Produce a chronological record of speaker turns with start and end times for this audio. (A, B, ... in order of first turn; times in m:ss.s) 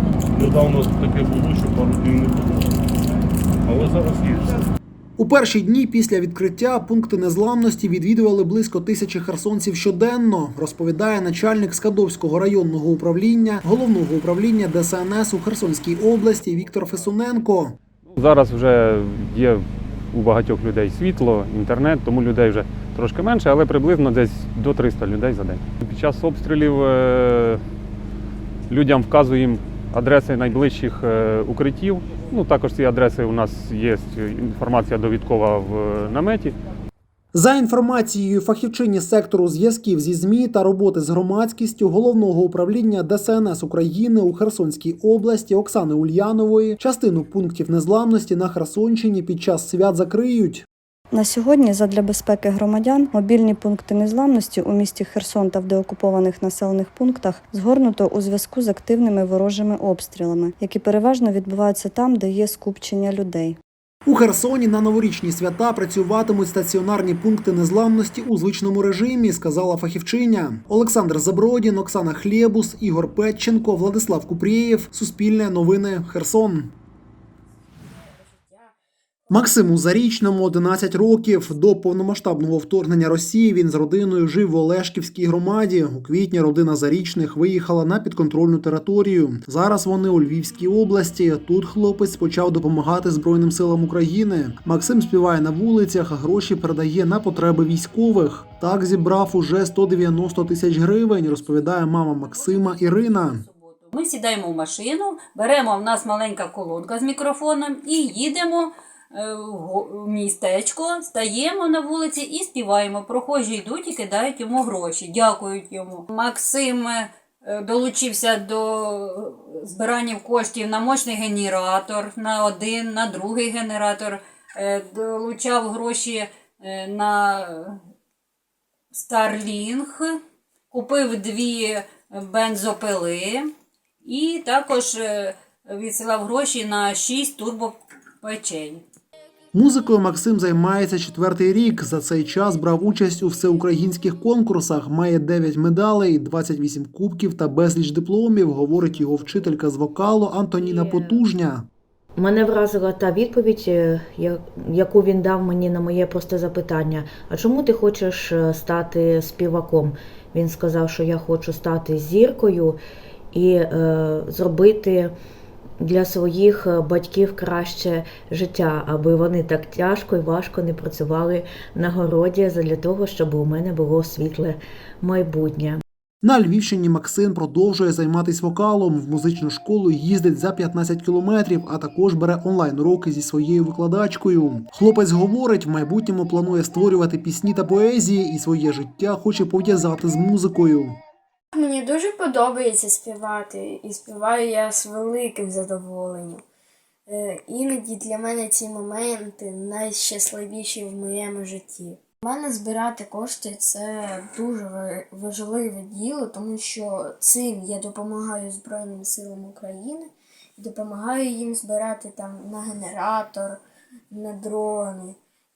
0:00.3-0:02.7 A
0:03.6-0:04.6 A
0:05.2-0:17.8 B
0:18.2-0:27.6 C
0:28.7-0:36.6 C
0:37.3-0:50.6 B
0:51.1-1:03.6 D
1:04.1-1:16.8 B
1:19.3-1:43.5 B
1:43.9-2:07.8 E
2:08.9-2:10.2 E
2:10.7-2:13.5 E
2:14.1-2:18.8 E
2:19.5-2:31.7 B
2:30.6-2:31.2 F
2:32.2-2:42.8 F
2:43.3-2:45.1 F
2:45.8-2:55.8 F
2:56.2-3:11.0 B
3:11.5-3:16.4 G
3:17.1-3:33.6 G
3:34.1-3:35.2 G